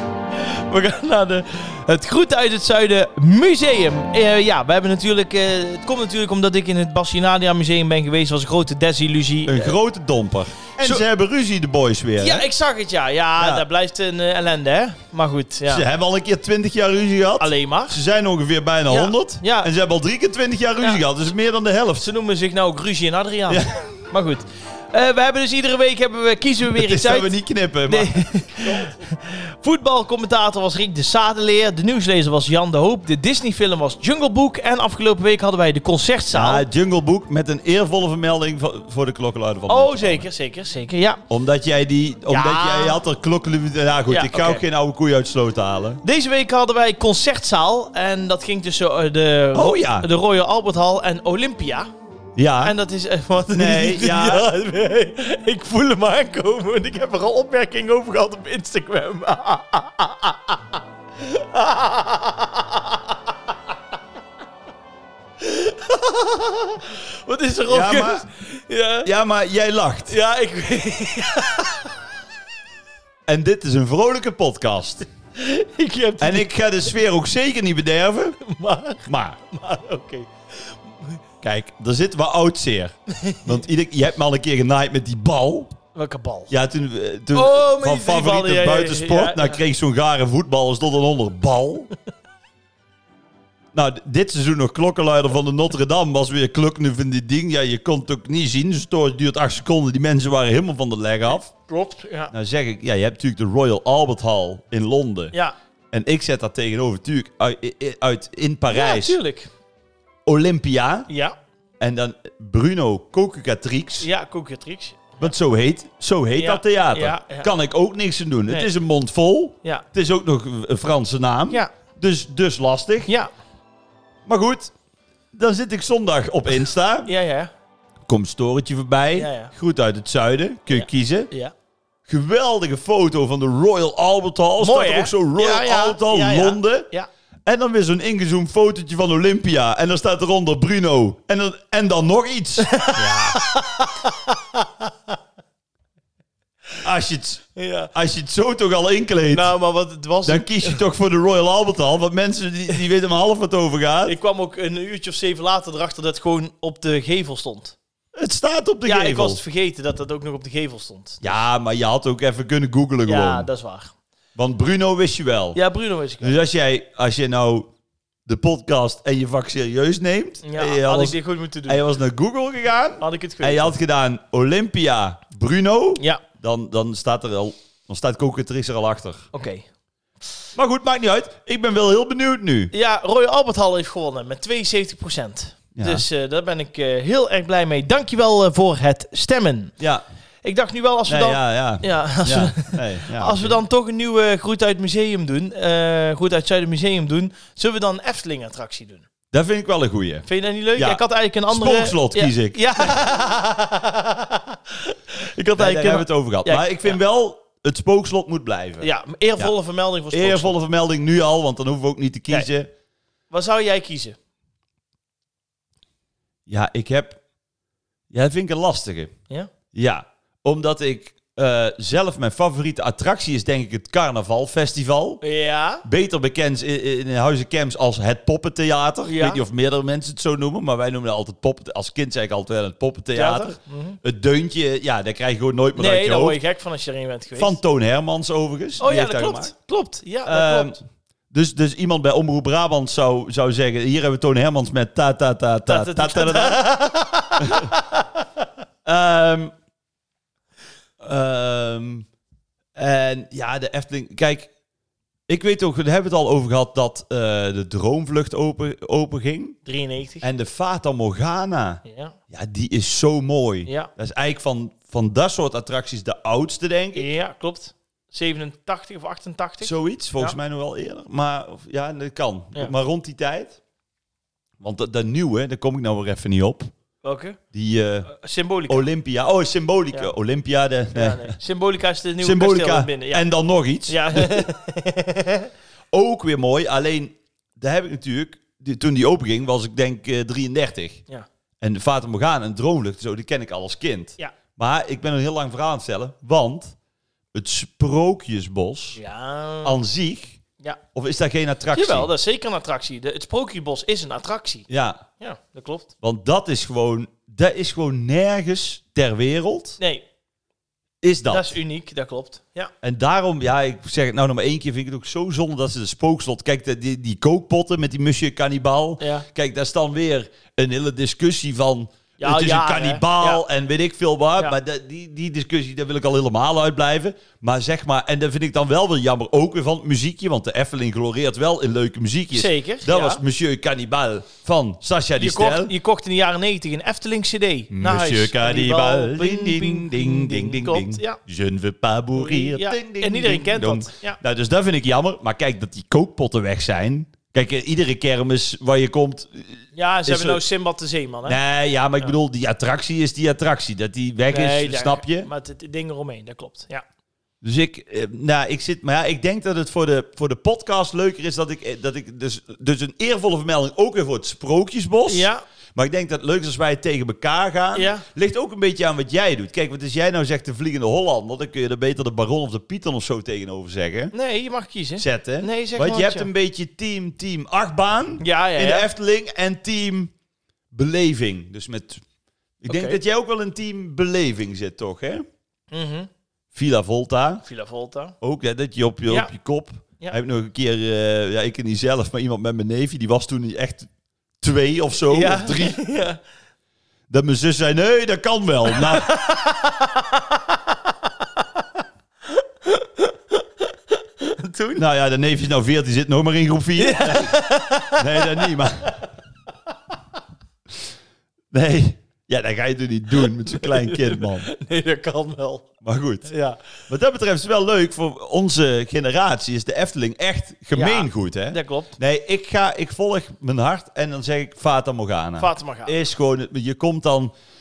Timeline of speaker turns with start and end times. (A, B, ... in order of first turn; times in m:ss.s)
0:00.4-0:09.8 A
0:09.4-0:12.5 B
0:12.2-0:15.8 A
0:13.4-0:13.6 B
0:15.6-0:22.0 B
0:17.4-0:18.0 A
0:18.9-0:19.7 A
0:22.0-0:27.3 A
0:23.5-0:24.0 B
0:26.7-0:29.0 B
0:27.9-0:36.6 A
0:36.3-0:40.3 B
0:39.7-0:41.2 A
0:41.3-0:46.0 B
0:42.3-0:43.0 A
0:44.1-0:44.6 A
0:46.0-0:51.9 A
0:49.5-0:50.1 B
0:52.4-0:52.8 B
0:52.6-1:00.6 A
0:53.5-0:54.5 B
1:01.2-1:03.0 A
1:05.4-1:09.1 A
1:07.7-1:08.3 B
1:09.0-1:10.2 B
1:10.1-1:11.9 A
1:13.2-1:15.0 B
1:15.4-1:16.5 A
1:16.2-1:18.4 B
1:18.4-1:21.2 A
1:19.0-1:19.4 B
1:21.4-1:25.7 B
1:23.1-1:23.6 A
1:25.9-1:26.5 A
1:26.5-1:31.9 B
1:27.3-1:29.6 A
1:33.7-1:41.5 B
1:41.3-1:42.3 A
1:42.3-1:45.3 B
1:45.9-1:49.2 B
1:48.7-1:49.5 A
1:50.2-1:51.1 B
1:51.1-1:51.3 A
1:51.8-1:54.1 B
1:54.0-1:55.3 A
1:55.2-2:03.1 B
1:56.3-1:57.5 A
2:03.0-2:03.3 A
2:04.2-2:04.7 B
2:05.3-2:07.1 B
2:07.0-2:07.5 A
2:08.0-2:11.3 B
2:09.1-2:09.5 A
2:10.7-2:11.5 A
2:12.1-2:16.9 B
2:14.6-2:17.1 A
2:17.4-2:23.4 B
2:22.6-2:25.1 A
2:26.8-2:29.5 B
2:27.6-2:27.9 A
2:29.3-2:30.8 A
2:30.2-2:34.2 B
2:34.0-2:37.7 A
2:38.1-2:39.4 B
2:38.8-2:41.4 A
2:41.2-2:43.5 B
2:43.0-2:43.9 A
2:44.4-2:45.6 B
2:45.5-2:46.4 A
2:46.2-2:47.7 B
2:48.2-2:59.3 B
2:50.4-2:51.8 A
2:53.0-2:53.8 A
2:59.3-2:59.6 A
3:00.5-3:02.7 B
3:02.7-3:09.7 A
3:05.7-3:06.0 B
3:10.4-3:19.0 A
3:11.1-3:13.6 B
3:19.3-3:22.9 B
3:20.2-3:27.0 A
3:25.6-3:29.5 B
3:28.8-3:30.5 A
3:30.1-3:32.7 B
3:33.3-3:34.2 A
3:36.5-3:37.2 B
3:38.1-3:39.1 B
3:39.7-3:45.2 B
3:45.2-3:45.8 A
3:45.8-3:56.4 B
3:49.0-3:49.4 A
3:53.1-3:54.0 A
3:55.8-3:57.6 A
3:57.4-3:59.5 B
3:58.8-4:00.8 A
4:00.2-4:06.7 B
4:05.7-4:08.0 A
4:07.4-4:07.7 B
4:08.8-4:09.5 B
4:11.0-4:12.1 B
4:12.8-4:14.5 B
4:15.3-4:19.6 B
4:19.6-4:20.3 A
4:20.2-4:27.1 B
4:21.8-4:22.1 A
4:23.6-4:23.9 A
4:26.9-4:30.4 A
4:29.6-4:33.6 B
4:34.6-4:36.7 B
4:37.0-4:37.4 A
4:37.5-4:38.1 B
4:38.0-4:38.9 A
4:38.7-4:41.4 B
4:40.9-4:43.2 A
4:42.2-4:44.5 B
4:43.9-4:45.5 A
4:45.9-4:51.0 B
4:51.6-4:56.7 B
4:57.3-4:59.0 B
4:58.9-4:59.8 A
4:59.6-5:00.4 B
5:00.9-5:02.1 B
5:01.7-5:04.7 A
5:04.7-5:05.0 B
5:05.2-5:05.9 A
5:06.0-5:09.8 B
5:11.0-5:11.6 B
5:11.3-5:12.7 A
5:12.8-5:35.7 B
5:19.0-5:19.2 A
5:22.2-5:23.4 A
5:32.3-5:33.2 A
5:35.2-5:41.2 A
5:37.7-5:50.4 B
5:42.1-5:44.2 A
5:49.7-5:51.4 A
5:51.2-5:55.3 B
5:54.3-5:56.8 A
5:57.4-6:14.1 B
6:05.1-6:05.4 A
6:07.7-6:08.0 A
6:14.1-6:16.3 A
6:15.0-6:20.1 B
6:18.2-6:18.9 A
6:20.7-6:22.0 B
6:22.6-6:25.2 B
6:22.7-6:23.0 A
6:25.7-6:26.1 A
6:26.5-6:27.4 B
6:27.4-6:28.1 A
6:28.2-6:33.9 B
6:34.4-6:35.8 B
6:35.1-6:36.2 A
6:37.1-6:39.2 B
6:38.8-6:40.6 A
6:42.4-6:43.4 A
6:44.2-6:44.8 A
6:44.8-6:49.0 B
6:46.8-6:48.6 A
6:51.5-6:54.5 B
6:53.5-6:55.7 A
6:55.8-6:56.3 B
6:56.2-6:56.6 A
6:56.9-7:07.3 B
7:00.7-7:01.9 A
7:05.4-7:06.0 A